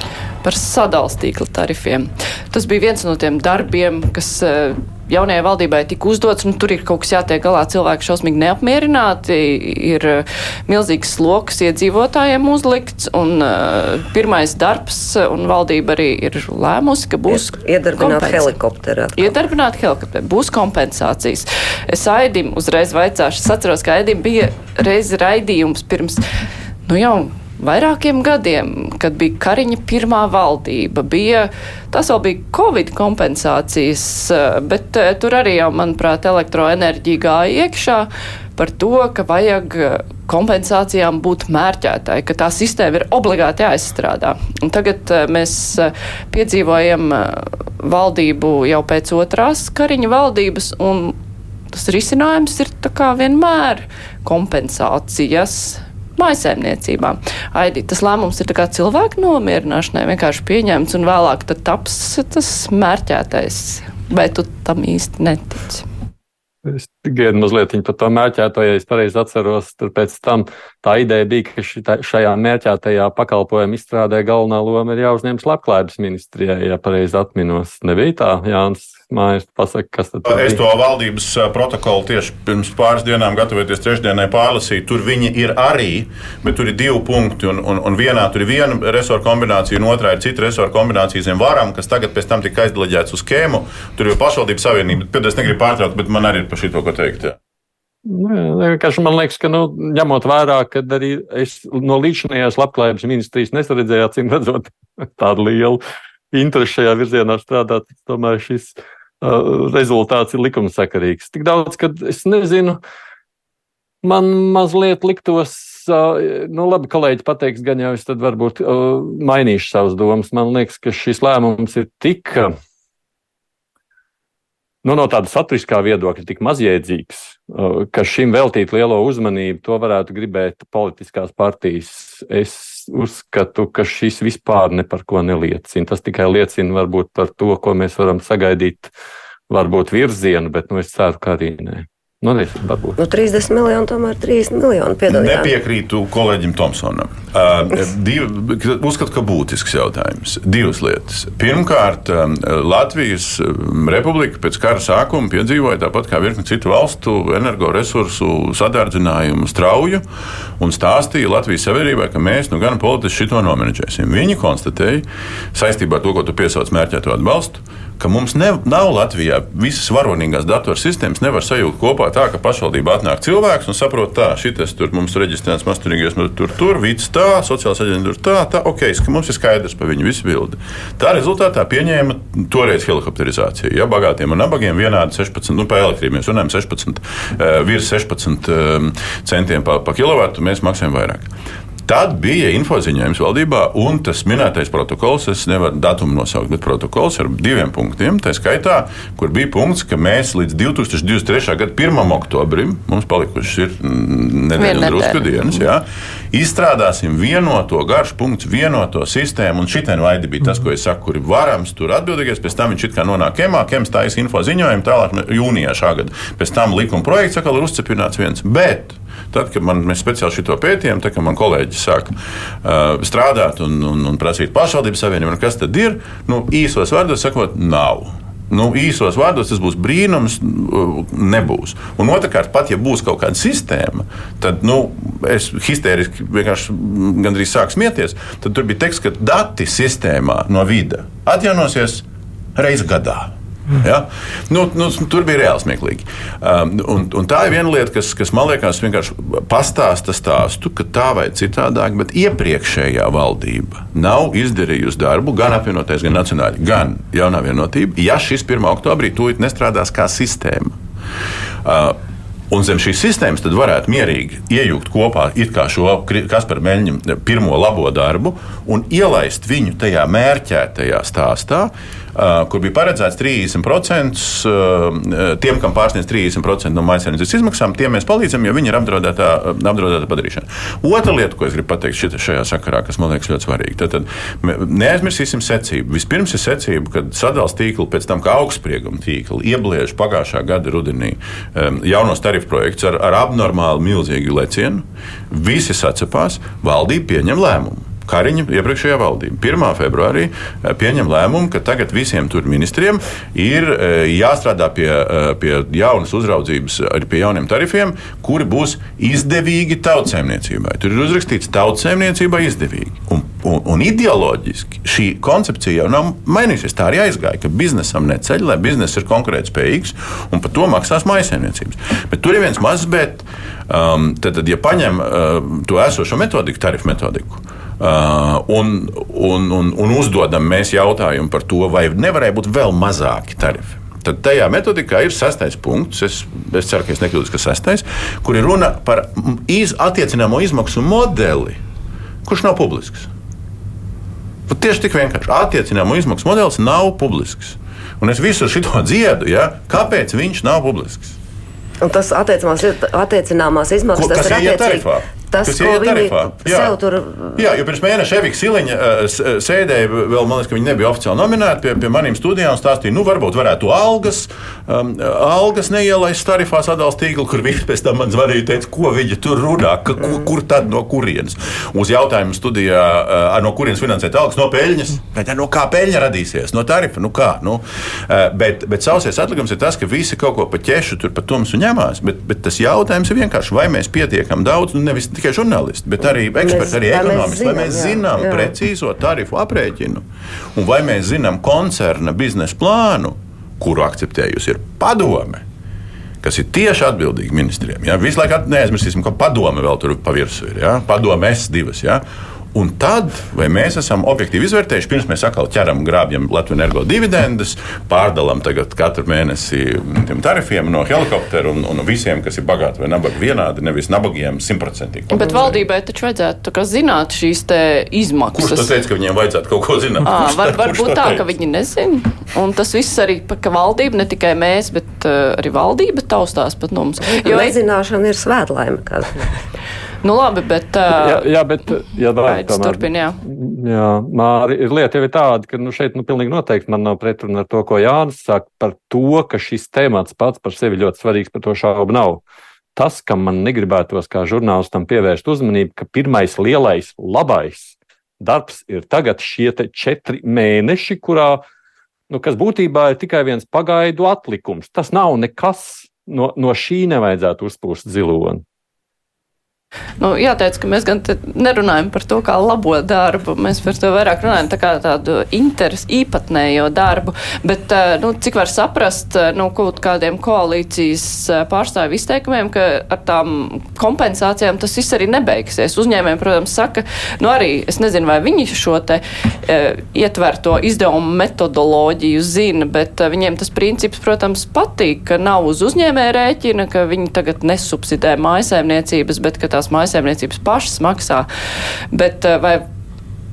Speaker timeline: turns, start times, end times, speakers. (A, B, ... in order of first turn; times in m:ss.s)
0:00.4-0:18.5 A
0:17.3-0:19.3 B
0:19.2-0:26.2 A
0:26.9-0:51.1 A
0:51.7-1:05.8 A
1:06.6-1:20.6 C
1:20.2-1:37.4 D
1:38.0-1:45.8 C
1:46.3-1:52.8 C
1:54.0-2:02.5 C
2:04.8-2:18.9 C
2:19.5-2:23.0 C
2:23.0-2:25.5 B
2:25.1-2:40.0 D
2:40.6-3:11.3 D
3:11.8-4:02.0 D
3:24.6-3:25.7 A
4:02.5-4:20.8 D
4:21.6-4:22.0 D
4:22.5-5:41.6 D
5:42.2-5:43.1 D
5:44.5-5:51.2 D
5:51.8-5:57.4 B
5:54.0-5:56.7 D
5:57.4-6:30.0 D
6:26.4-6:28.5 B
6:30.5-6:35.4 D
6:36.2-6:42.0 D
6:42.5-6:55.6 D
6:55.1-6:58.7 A
6:58.3-7:01.2 D
7:00.0-7:07.6 A
7:07.1-7:09.3 B
7:10.0-7:11.3 A
7:10.9-7:22.2 C
7:12.2-7:13.2 A
7:22.8-7:31.4 C
7:32.1-7:38.4 C
7:40.0-8:11.2 A
8:11.9-8:12.6 A